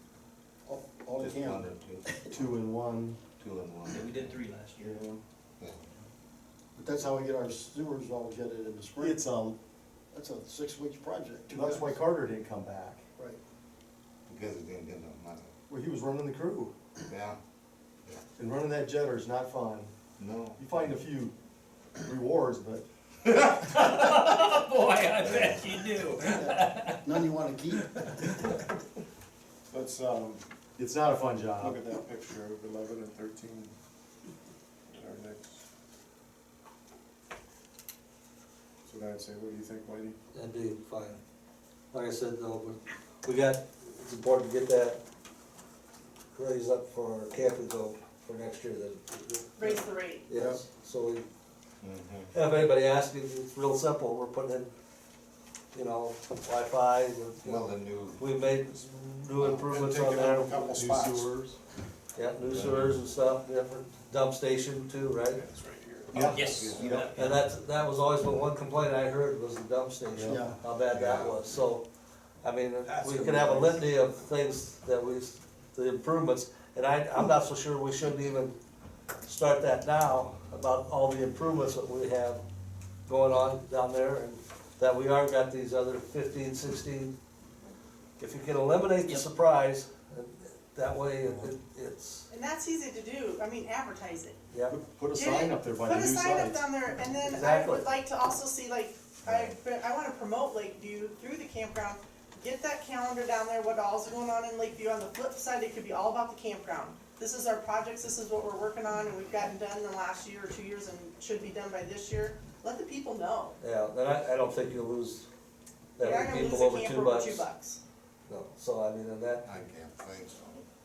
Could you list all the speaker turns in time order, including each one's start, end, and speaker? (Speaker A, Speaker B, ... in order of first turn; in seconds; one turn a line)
Speaker A: 0.7-1.6
Speaker B: 1.2-2.1
Speaker C: 2.3-3.2
Speaker B: 3.3-4.4
Speaker D: 3.9-5.0
Speaker C: 4.8-5.2
Speaker A: 6.8-9.2
Speaker C: 9.0-9.6
Speaker A: 10.1-12.0
Speaker C: 11.5-13.0
Speaker B: 14.3-15.5
Speaker C: 15.7-16.7
Speaker B: 17.1-17.4
Speaker C: 18.4-19.9
Speaker B: 20.2-20.9
Speaker C: 20.6-21.3
Speaker C: 22.0-22.8
Speaker D: 23.5-27.0
Speaker B: 25.2-25.7
Speaker A: 26.2-27.9
Speaker D: 27.7-28.5
Speaker E: 29.7-30.4
Speaker C: 30.8-31.8
Speaker E: 31.6-33.7
Speaker E: 34.9-35.6
Speaker E: 38.8-40.1
Speaker F: 40.3-41.2
Speaker F: 41.9-45.0
Speaker F: 46.3-51.3
Speaker G: 49.6-50.2
Speaker B: 51.8-52.3
Speaker F: 52.3-54.7
Speaker F: 55.7-60.6
Speaker B: 57.4-58.2
Speaker E: 59.4-61.3
Speaker C: 60.6-61.6
Speaker F: 62.1-65.4
Speaker B: 62.5-62.9
Speaker E: 65.3-67.0
Speaker C: 66.1-67.1
Speaker D: 66.2-67.4
Speaker B: 66.6-67.0
Speaker F: 67.1-71.8
Speaker C: 70.1-70.4
Speaker A: 70.2-70.6
Speaker B: 70.9-71.3
Speaker F: 72.4-78.5
Speaker E: 72.9-73.8
Speaker F: 79.2-82.4
Speaker F: 83.1-87.1
Speaker F: 88.2-92.3
Speaker G: 92.3-94.4
Speaker C: 94.7-96.6
Speaker G: 95.1-113.5
Speaker F: 97.2-97.8
Speaker B: 99.2-99.6
Speaker F: 113.6-115.3
Speaker F: 116.0-117.5
Speaker G: 116.0-117.8
Speaker F: 118.3-119.4
Speaker B: 119.4-120.7